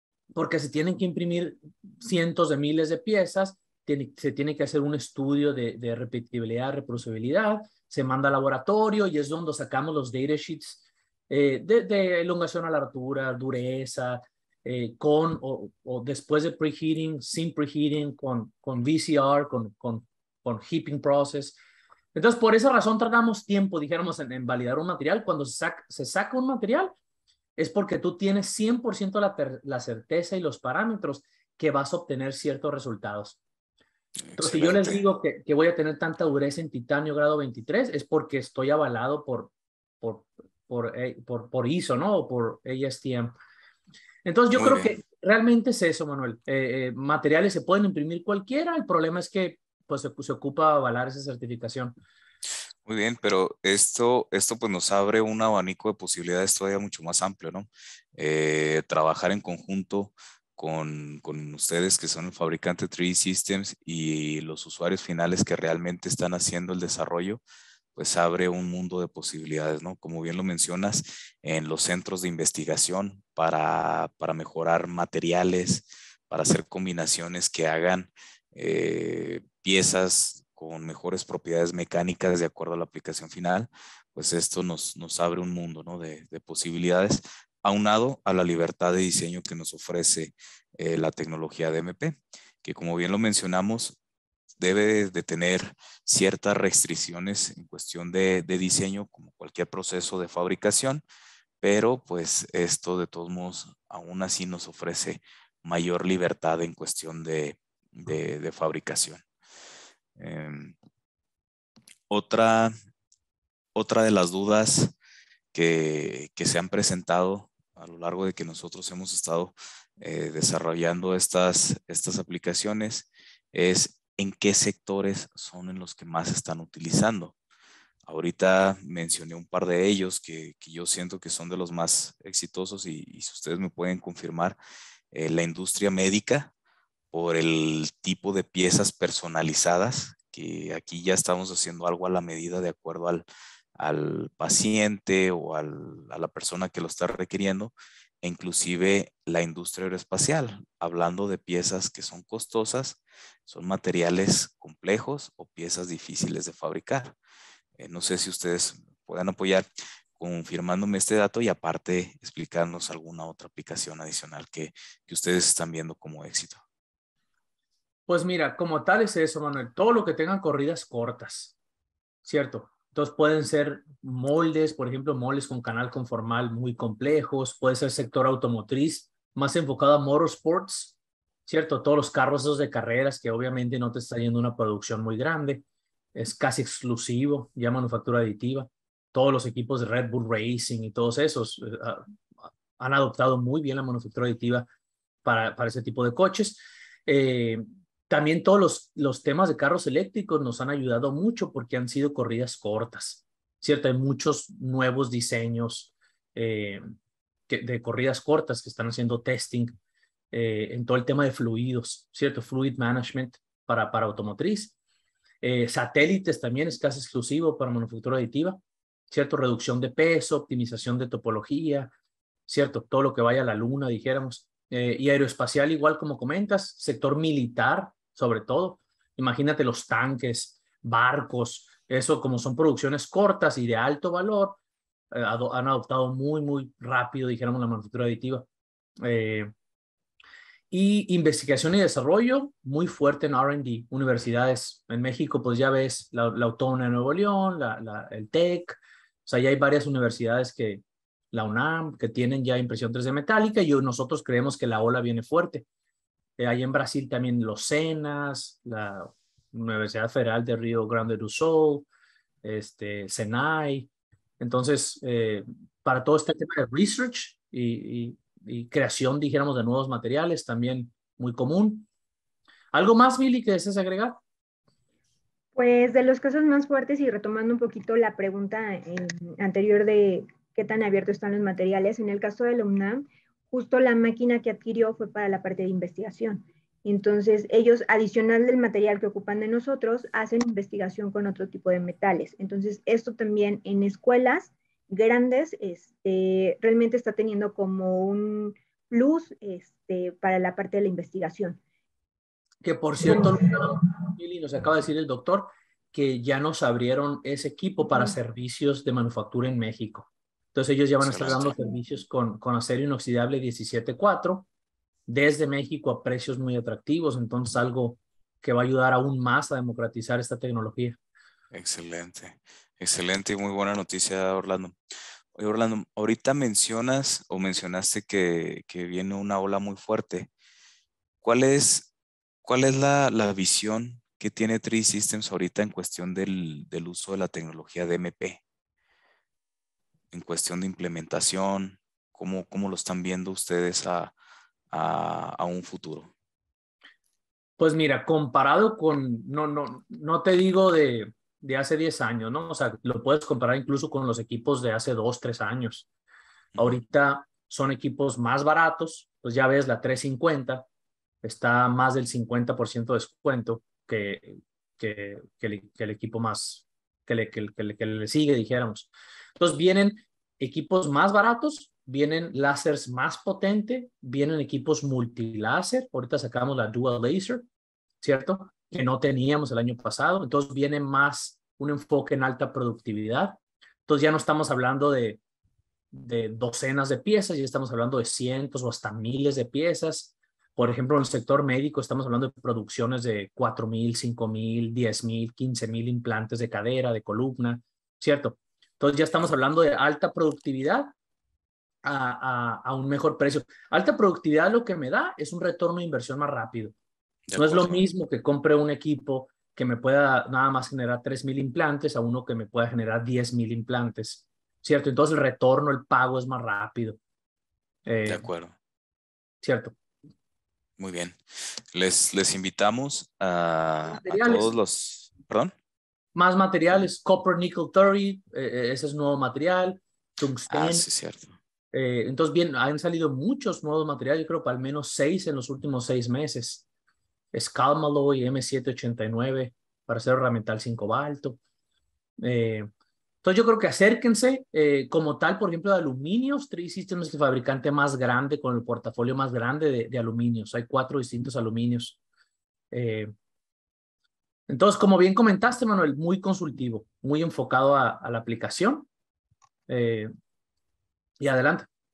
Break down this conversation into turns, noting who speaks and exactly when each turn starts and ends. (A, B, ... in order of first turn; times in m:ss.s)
0:00.3-0:21.6 A
0:22.1-0:26.9 A
0:27.6-0:33.4 A
0:34.3-0:35.0 B
0:34.4-0:43.3 A
0:44.2-0:52.0 A
0:44.5-0:44.9 B
0:52.8-1:07.4 B
1:07.9-1:34.0 B
1:34.6-1:41.0 B
1:41.6-1:49.2 B
1:50.2-1:50.8 B
1:52.1-1:52.7 B
1:53.7-1:55.0 B
1:55.5-2:07.3 B
2:08.0-2:14.6 B
2:15.1-2:16.5 B
2:17.1-2:23.2 B
2:23.8-2:37.2 B
2:37.8-2:39.6 B
2:40.2-2:46.6 B
2:48.1-2:51.6 A
2:52.2-3:12.0 A
3:12.8-3:14.6 A
3:15.2-3:26.8 A
3:27.5-3:29.7 A
3:30.3-3:34.7 A
3:35.4-3:41.9 A
3:42.5-3:54.6 A
3:55.1-3:58.5 A
3:59.0-3:59.5 A
4:00.7-4:15.6 A
4:16.4-4:21.8 A
4:22.4-4:23.9 A
4:24.4-4:31.9 A
4:32.7-4:34.2 A
4:35.5-5:01.6 C
5:02.6-5:14.5 A
5:03.1-5:03.4 C
5:07.8-5:08.1 C
5:11.0-5:11.5 B
5:15.1-5:21.0 A
5:21.5-5:24.8 B
5:25.3-5:30.3 B
5:31.2-5:31.9 B
5:32.4-5:38.4 B
5:40.1-5:44.1 B
5:44.7-5:46.1 B
5:47.6-5:55.9 A
5:56.5-5:56.8 B
5:56.6-6:00.6 A
6:01.2-6:17.4 A
6:18.0-6:25.2 A
6:25.9-6:40.9 A
6:41.8-6:46.7 A
6:47.3-6:47.8 B
6:47.4-6:57.0 A
6:57.8-6:58.2 A
6:58.1-6:58.5 B
6:59.4-6:59.7 A
7:00.8-7:05.5 B
7:03.9-7:04.5 A
7:06.1-7:10.8 A
7:10.5-7:11.3 B
7:11.7-7:16.6 A
7:17.3-7:21.4 A
7:22.2-7:22.7 A
7:23.2-7:32.0 A
7:32.7-7:33.1 A
7:34.5-7:38.9 A
7:39.7-7:40.1 A
7:41.2-7:41.7 A